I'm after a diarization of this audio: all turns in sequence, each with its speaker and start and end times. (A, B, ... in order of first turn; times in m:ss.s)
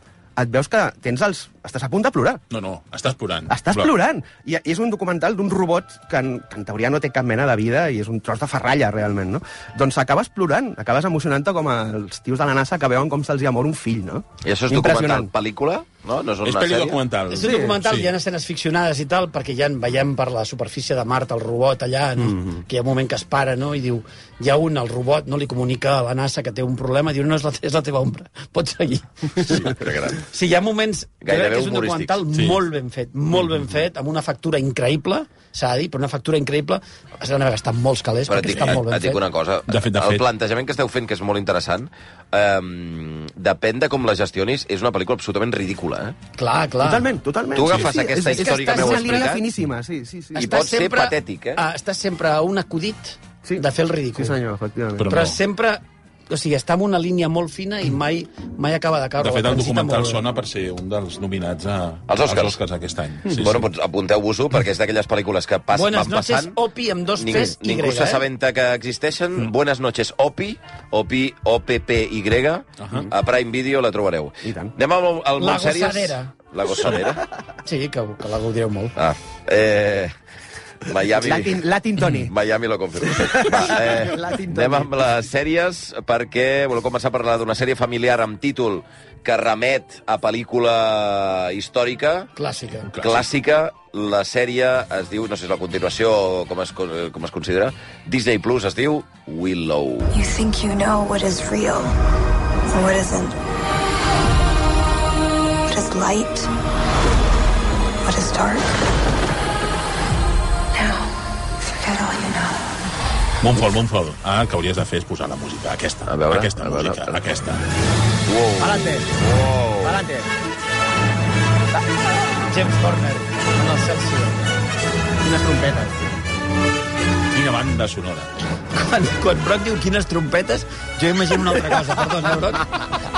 0:00.4-0:02.4 A
0:02.5-0:03.9 B
0:03.5-0:15.3 A
0:14.4-0:17.0 C
0:16.4-0:18.1 B
0:17.3-0:29.7 D
0:17.4-0:17.8 A
0:22.2-0:22.6 A
0:29.4-0:29.8 B
0:29.6-0:30.2 C
0:30.2-0:39.2 D
0:31.2-0:32.2 C
0:32.3-0:32.6 B
0:38.3-0:46.2 C
0:38.5-0:38.8 B
0:39.7-0:40.3 B
0:46.4-0:47.1 D
0:46.8-0:50.7 A
0:47.5-0:49.4 C
0:48.3-0:49.3 D
0:50.4-0:54.4 D
0:50.4-0:51.6 C
0:53.4-0:55.1 A
0:55.0-0:55.4 B
0:55.1-1:00.2 D
0:59.2-1:03.7 B
1:02.1-1:02.6 C
1:03.4-1:06.6 C
1:05.7-1:08.2 D
1:07.2-1:17.2 C
1:12.8-1:13.1 B
1:14.4-1:14.7 A
1:15.4-1:16.3 D
1:17.6-1:18.9 D
1:19.0-1:20.1 C
1:20.8-1:32.3 C
1:21.2-1:22.3 A
1:23.0-1:25.1 A
1:32.4-1:32.9 D
1:32.9-1:33.2 B
1:33.0-1:40.1 C
1:40.1-1:41.9 E
1:42.7-1:43.4 E
1:45.7-1:46.5 E
1:48.0-1:48.7 E
1:50.7-1:51.1 E
1:51.7-1:52.7 E
1:53.4-1:57.6 B
1:56.1-1:57.2 C
1:58.3-2:00.0 C
1:58.6-1:59.1 A
1:59.8-2:00.3 A
2:02.5-2:04.5 D
2:05.2-2:06.2 A
2:07.3-2:08.3 B
2:08.7-2:12.9 D